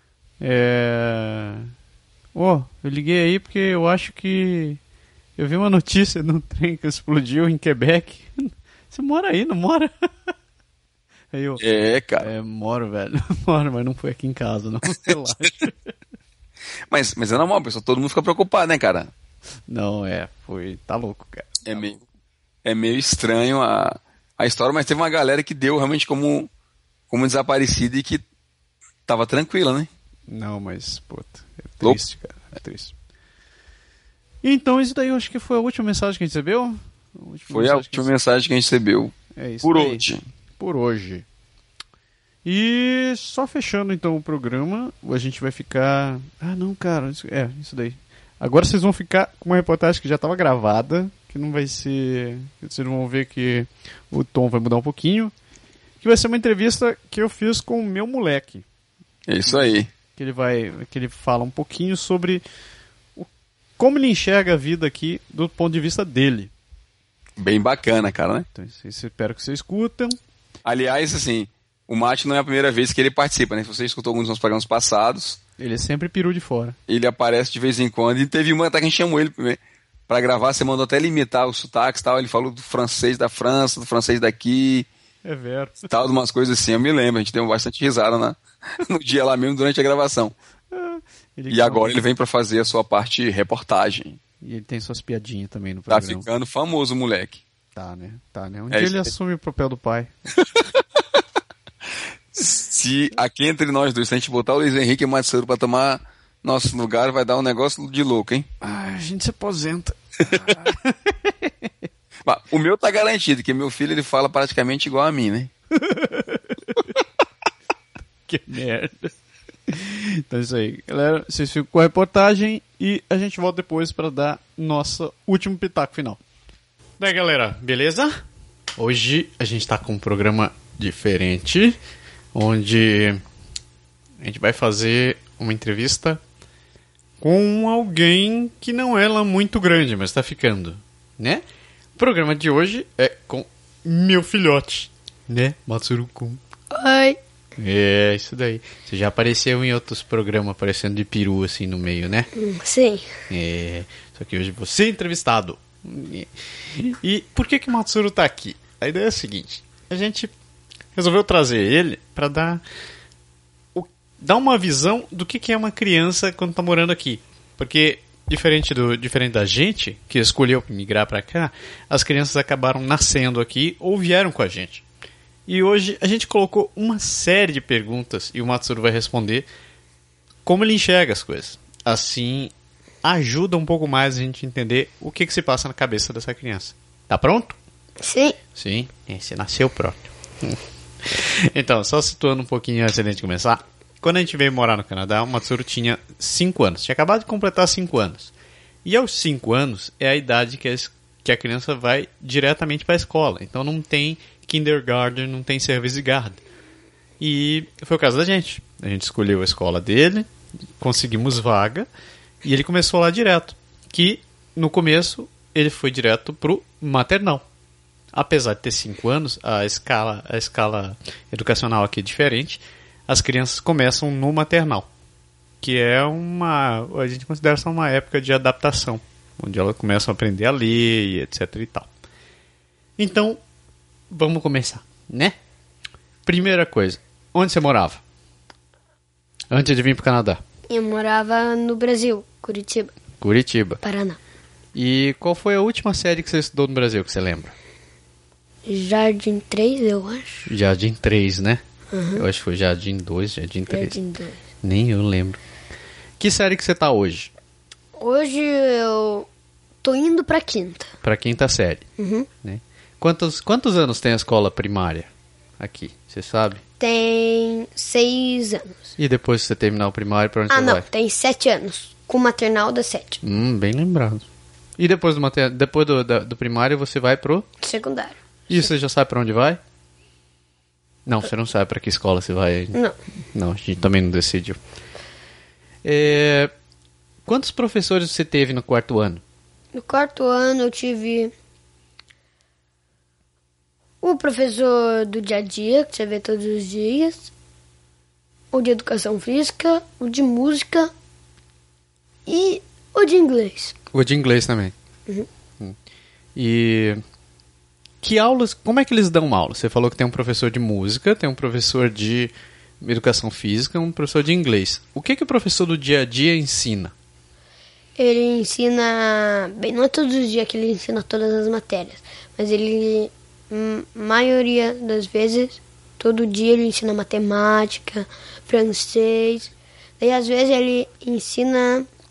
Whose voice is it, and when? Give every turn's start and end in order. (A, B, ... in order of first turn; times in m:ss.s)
0:00.4-0:01.7 A
0:02.3-0:04.8 A
0:05.4-0:10.1 A
0:11.3-0:11.6 A
0:11.6-0:12.3 B
0:12.2-0:15.9 A
0:16.9-0:19.1 B
0:19.7-0:22.0 A
0:21.7-0:22.0 B
0:22.6-0:26.5 B
0:27.1-0:28.2 B
0:29.1-0:29.9 B
0:30.3-0:32.9 A
0:34.4-0:38.1 A
0:37.5-0:40.2 B
0:39.4-0:40.0 A
0:40.6-0:41.2 A
0:42.4-0:55.3 A
0:56.0-0:58.6 A
0:59.3-0:59.9 B
0:59.5-1:02.4 A
1:03.2-1:06.5 A
1:07.4-1:08.5 B
1:08.5-1:10.2 A
1:10.6-1:15.4 B
1:15.6-1:16.8 A
1:16.9-1:24.9 B
1:25.2-1:25.9 A
1:25.9-1:30.3 B
1:30.7-1:32.0 A
1:31.5-1:34.2 B
1:34.4-1:36.3 A
1:35.9-1:37.4 B
1:37.8-1:40.2 A
1:38.7-1:39.1 B
1:40.6-1:41.2 B
1:42.3-1:48.5 B
1:48.6-1:51.7 A
1:52.2-1:55.5 B
1:55.8-1:56.6 A
1:58.3-1:59.1 A
1:59.7-2:06.2 A
2:07.0-2:08.2 A
2:08.8-2:11.8 A
2:12.3-2:13.2 A
2:14.2-2:16.2 A
2:17.2-2:21.4 A
2:22.0-2:26.4 A
2:26.7-2:27.2 C
2:27.6-2:32.3 A
2:32.4-2:33.1 C
2:33.3-2:40.3 A
2:41.0-2:42.6 A
2:43.8-2:54.8 A
2:55.5-2:59.5 A
3:00.5-3:02.5 A
3:03.0-3:07.6 A
3:08.0-3:08.4 C
3:08.6-3:18.3 A
3:18.8-3:26.4 A
3:27.2-3:30.3 A
3:30.8-3:31.9 A
3:32.4-3:37.4 A
3:38.1-3:44.9 A
3:45.6-3:51.9 A
3:53.0-3:53.4 A
3:54.1-3:55.4 A
3:56.3-3:58.0 A
3:59.5-4:00.4 A
4:00.7-4:02.9 C
4:03.2-4:03.8 A
4:03.8-4:04.2 C
4:04.8-4:07.5 A
4:08.7-4:10.5 C
4:10.5-4:11.6 A
4:11.9-4:12.2 C
4:12.2-4:14.0 A
4:13.7-4:14.4 C
4:14.6-4:15.4 A
4:16.2-4:17.3 A
4:18.0-4:19.3 C
4:19.8-4:20.9 C
4:21.0-4:21.9 A
4:22.0-4:22.3 C
4:22.4-4:25.1 A
4:25.6-4:26.6 A
4:26.8-4:28.8 C
4:29.0-4:30.8 A
4:30.5-4:33.2 C
4:33.2-4:34.2 A
4:34.8-4:37.5 A
4:37.6-4:38.7 C
4:38.5-4:39.6 A
4:41.1-4:42.8 A
4:43.3-4:44.6 A
4:45.8-4:46.5 A
4:47.3-4:49.2 A
4:49.7-4:51.3 C
4:54.0-4:57.3 C
4:58.5-5:00.9 C
5:02.3-5:03.8 C
5:03.9-5:04.7 A
5:06.4-5:07.0 A
5:08.0-5:16.9 A
5:18.0-5:31.9 C